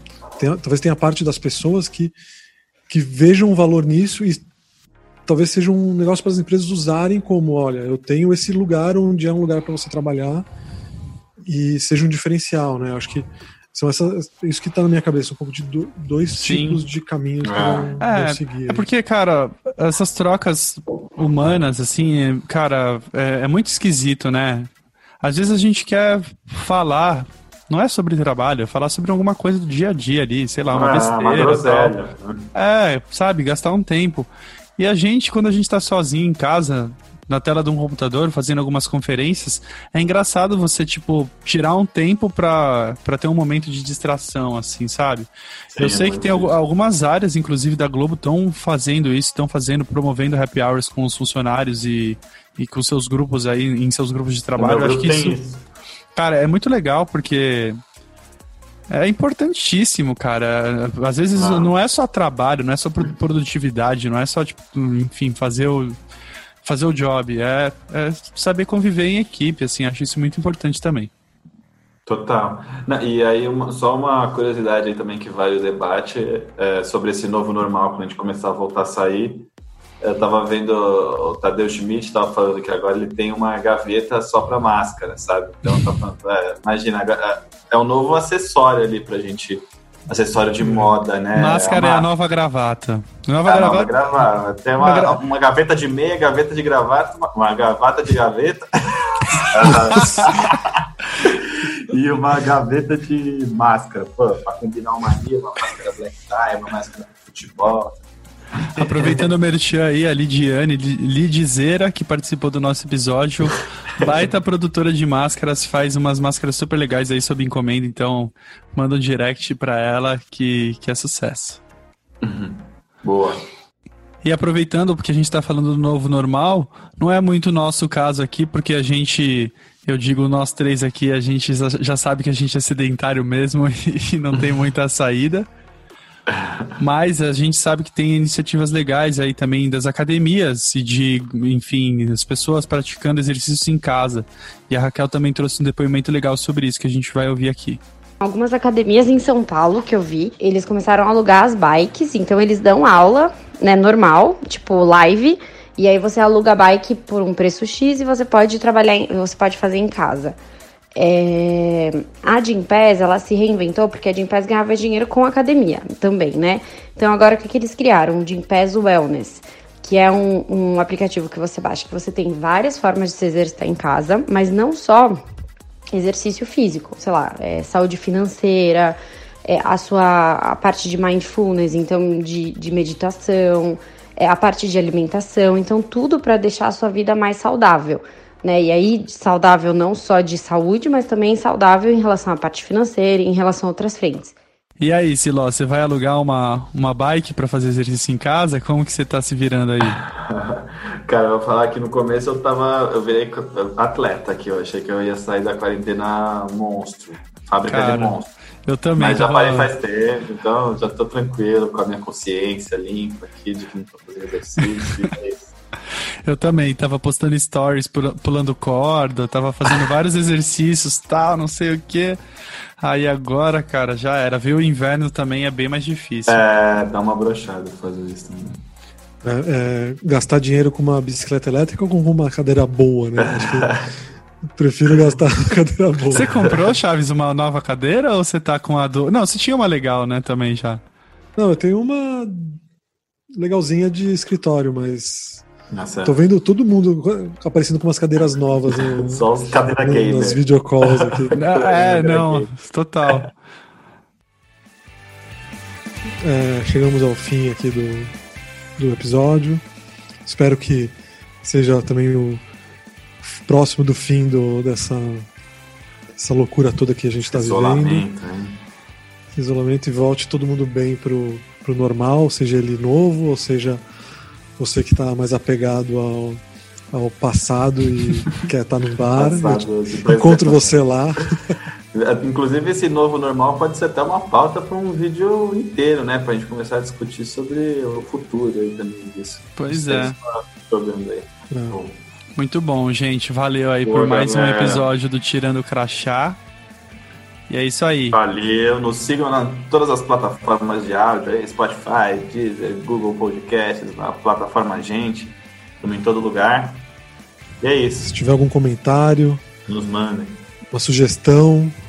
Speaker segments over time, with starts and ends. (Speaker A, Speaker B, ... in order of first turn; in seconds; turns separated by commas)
Speaker A: 0.4-2.1, Speaker A: 2.9-4.5, Speaker A: 5.3-10.5, Speaker A: 11.4-18.9, Speaker B: 16.4-16.8, Speaker C: 17.4-18.0, Speaker B: 18.0-32.0, Speaker C: 30.7-32.5, Speaker B: 32.5-55.4, Speaker C: 45.7-46.5, Speaker C: 54.6-55.6, Speaker B: 56.2-57.8, Speaker B: 58.9-66.0, Speaker C: 61.4-61.7, Speaker B: 66.6-71.1, Speaker C: 72.1-79.5, Speaker C: 80.0-92.1, Speaker A: 90.6-91.0, Speaker B: 91.3-93.9, Speaker C: 93.5-108.0, Speaker B: 94.8-95.2, Speaker B: 100.0-100.3, Speaker C: 108.8-109.2, Speaker B: 108.8-121.6, Speaker C: 122.2-123.5, Speaker B: 124.2-135.5, Speaker C: 134.3-134.6, Speaker C: 136.3-136.7, Speaker B: 136.8-147.8, Speaker D: 148.2-160.4, Speaker D: 160.9-175.2, Speaker D: 175.9-194.3, Speaker B: 194.8-200.0, Speaker C: 199.8-208.3, Speaker B: 207.7-209.7, Speaker C: 209.0-215.5, Speaker B: 216.2-222.2, Speaker B: 222.8-226.4, Speaker C: 226.3-228.6, Speaker A: 229.2-233.9, Speaker C: 233.2-233.9, Speaker A: 234.5-236.3, Speaker C: 236.1-236.7, Speaker B: 236.1-240.8, Speaker A: 241.4-242.6, Speaker A: 243.3-245.5, Speaker C: 245.7-246.2, Speaker A: 246.1-249.3, Speaker C: 248.7-252.5, Speaker A: 249.8-251.3, Speaker B: 251.3-253.3, Speaker A: 256.2-258.1, Speaker A: 258.8-259.6, Speaker A: 260.2-262.4, Speaker A: 263.2-265.3, Speaker A: 266.2-268.1, Speaker C: 267.3-268.6, Speaker A: 269.3-273.8, Speaker A: 274.6-276.4, Speaker A: 276.9-281.5, Speaker C: 279.2-280.8, Speaker C: 281.9-292.0, Speaker B: 289.6-290.2, Speaker A: 291.5-291.8, Speaker B: 292.4-296.4, Speaker C: 293.9-294.9, Speaker B: 297.5-298.2, Speaker C: 298.1-306.9, Speaker C: 307.6-308.1, Speaker A: 308.1-309.4, Speaker C: 309.7-310.4, Speaker A: 310.7-311.8